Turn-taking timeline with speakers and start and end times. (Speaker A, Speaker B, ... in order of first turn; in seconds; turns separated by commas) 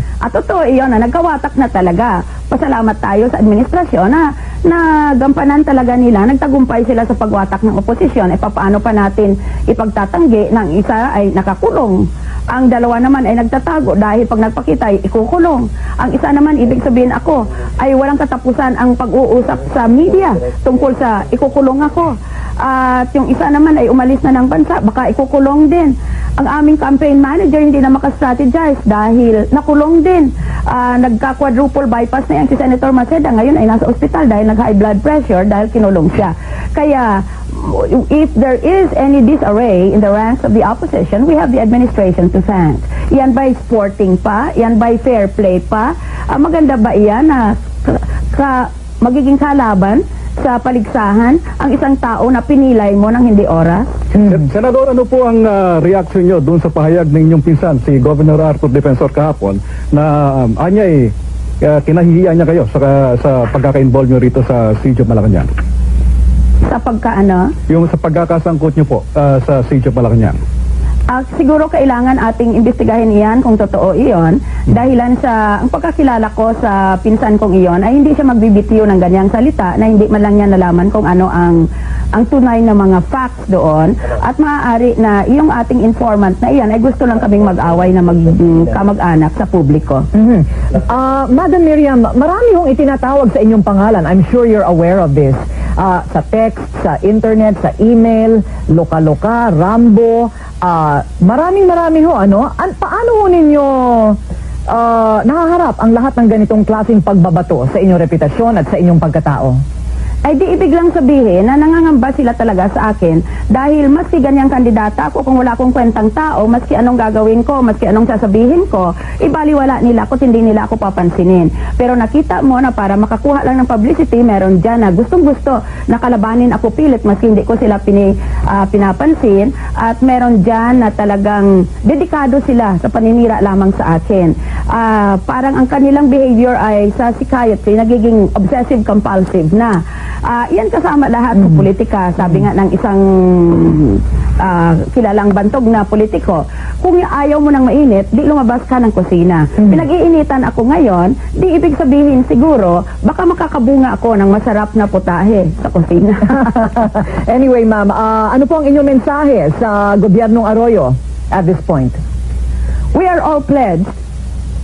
Speaker A: 0.2-53.9, Speaker B: 54.2-65.5, Speaker A: 66.7-67.5, Speaker B: 67.7-70.4, Speaker A: 71.1-90.1, Speaker C: 90.1-104.2, Speaker C: 104.7-109.6, Speaker A: 110.2-156.5, Speaker C: 156.4-162.0, Speaker A: 162.9-163.9